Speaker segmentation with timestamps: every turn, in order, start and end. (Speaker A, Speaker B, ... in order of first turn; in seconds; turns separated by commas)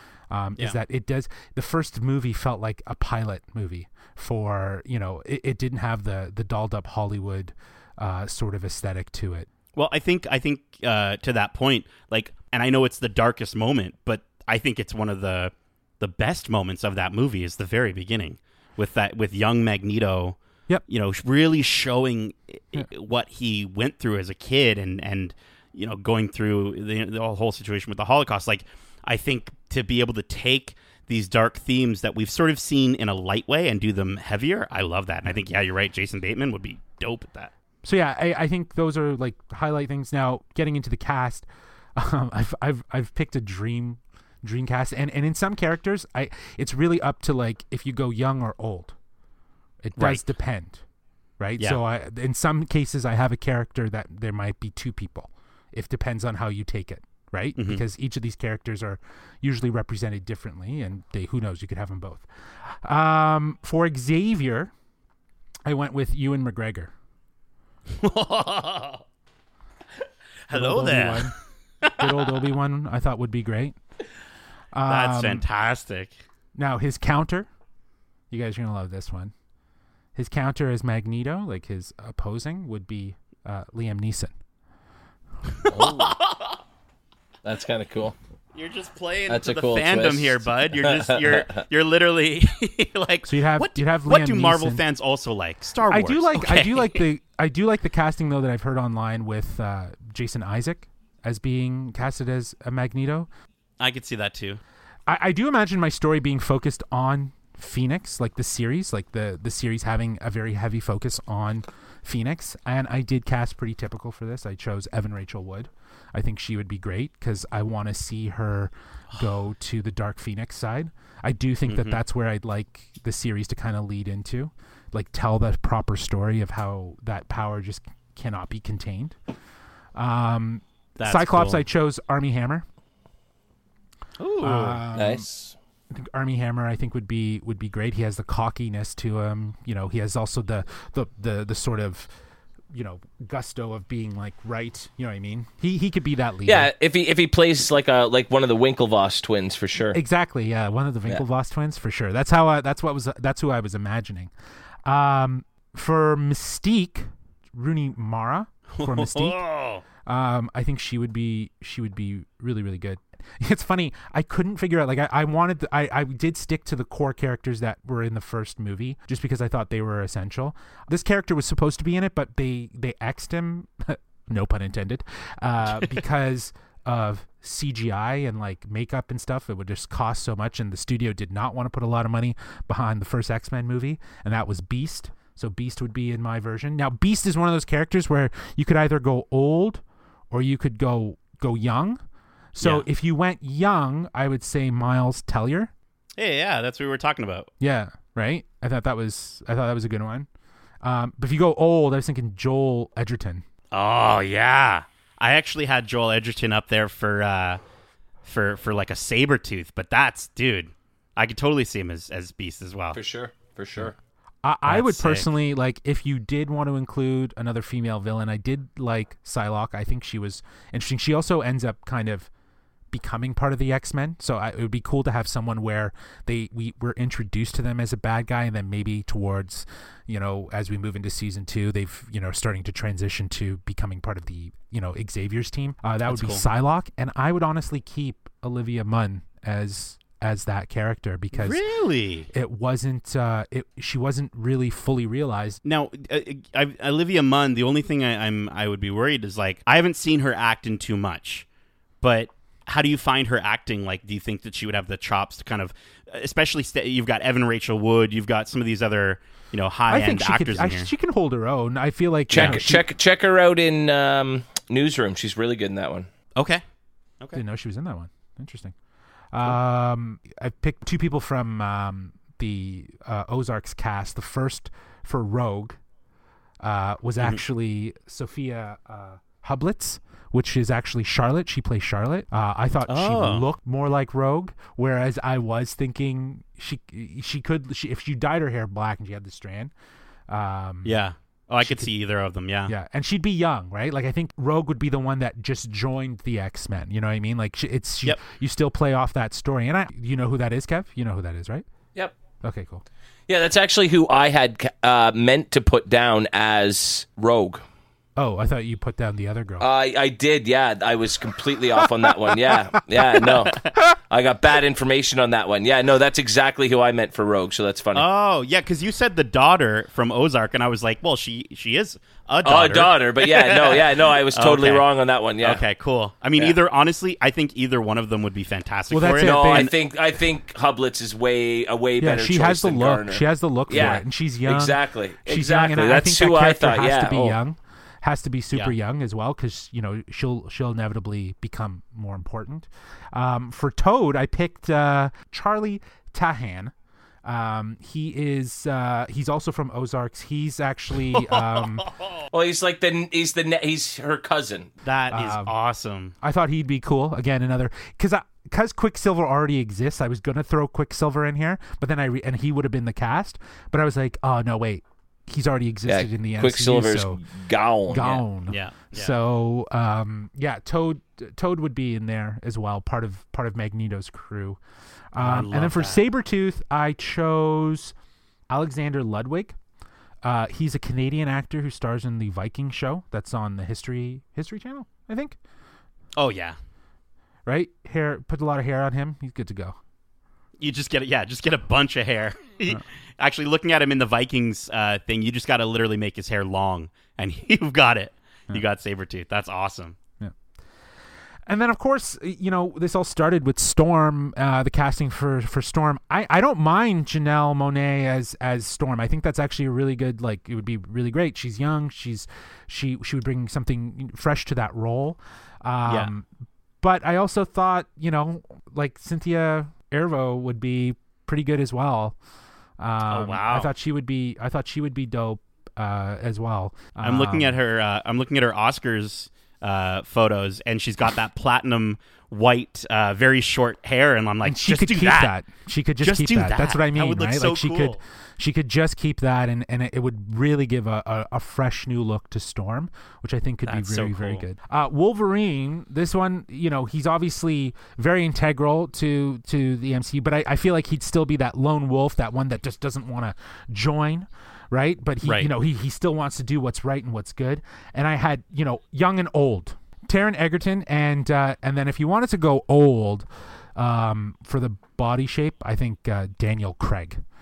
Speaker A: 0.3-9.5, Speaker B: 9.8-37.5, Speaker A: 37.8-49.0, Speaker A: 49.8-50.8, Speaker B: 50.0-50.2, Speaker A: 51.4-62.3, Speaker A: 62.8-64.7, Speaker A: 65.7-66.9, Speaker B: 67.9-69.0, Speaker B: 70.5-72.2, Speaker A: 70.5-71.4, Speaker A: 71.9-73.8, Speaker A: 74.8-75.5, Speaker B: 74.9-76.2, Speaker A: 76.6-77.5, Speaker A: 78.3-79.3, Speaker A: 80.2-84.3, Speaker B: 85.5-86.6, Speaker C: 85.7-86.2, Speaker C: 87.4-88.2, Speaker B: 88.5-97.0, Speaker C: 89.3-91.6, Speaker A: 93.3-94.8, Speaker A: 95.9-103.3, Speaker B: 103.8-104.6, Speaker A: 105.1-129.2, Speaker B: 121.7-122.0, Speaker A: 129.9-132.7, Speaker B: 131.0-131.7, Speaker B: 134.2-134.8, Speaker A: 134.4-135.3, Speaker C: 134.9-135.6, Speaker A: 135.9-142.1, Speaker A: 142.7-146.7, Speaker C: 146.5-150.0, Speaker A: 149.9-154.3, Speaker A: 154.9-159.4, Speaker B: 158.7-159.8, Speaker A: 160.1-192.0, Speaker A: 192.6-195.7, Speaker B: 192.6-192.9, Speaker B: 196.2-197.5, Speaker A: 197.6-200.3, Speaker A: 200.8-203.4, Speaker B: 203.7-207.6, Speaker B: 208.2-213.0, Speaker C: 212.9-213.9, Speaker A: 214.4-222.3, Speaker B: 214.7-215.3, Speaker A: 222.9-241.6, Speaker B: 236.1-236.4, Speaker B: 241.3-242.3, Speaker A: 242.3-245.6, Speaker B: 245.6-251.5, Speaker B: 252.0-260.9, Speaker A: 259.9-262.8, Speaker C: 262.3-266.1, Speaker B: 262.4-262.6, Speaker B: 266.4-266.6, Speaker A: 267.3-268.8, Speaker A: 269.3-275.8, Speaker A: 276.6-289.7, Speaker B: 282.9-283.4, Speaker A: 290.3-291.0, Speaker B: 290.9-292.7, Speaker A: 291.6-291.9, Speaker A: 292.7-301.7, Speaker A: 302.4-302.8, Speaker C: 303.3-307.6, Speaker A: 308.2-309.7, Speaker C: 309.6-318.1, Speaker B: 317.9-324.9, Speaker C: 322.4-325.6, Speaker B: 325.4-329.7, Speaker A: 328.9-329.7, Speaker C: 329.1-337.4, Speaker A: 332.0-346.7, Speaker B: 333.7-334.0, Speaker A: 347.2-351.9, Speaker B: 351.1-352.3, Speaker C: 352.3-354.7, Speaker B: 354.8-356.1, Speaker A: 355.1-355.5, Speaker A: 356.2-367.2, Speaker C: 365.9-368.2, Speaker A: 367.9-374.6, Speaker B: 368.5-369.1, Speaker A: 375.1-377.9, Speaker B: 375.2-376.0, Speaker A: 378.5-379.6, Speaker A: 380.2-385.4, Speaker B: 386.2-386.6, Speaker A: 387.5-389.8, Speaker B: 390.6-400.0, Speaker A: 401.5-416.3, Speaker B: 415.9-416.1, Speaker A: 416.8-422.2, Speaker A: 422.8-427.6, Speaker B: 423.1-423.7, Speaker B: 427.0-435.3, Speaker A: 434.4-467.2, Speaker B: 436.0-438.0, Speaker B: 443.7-444.4, Speaker B: 455.2-455.5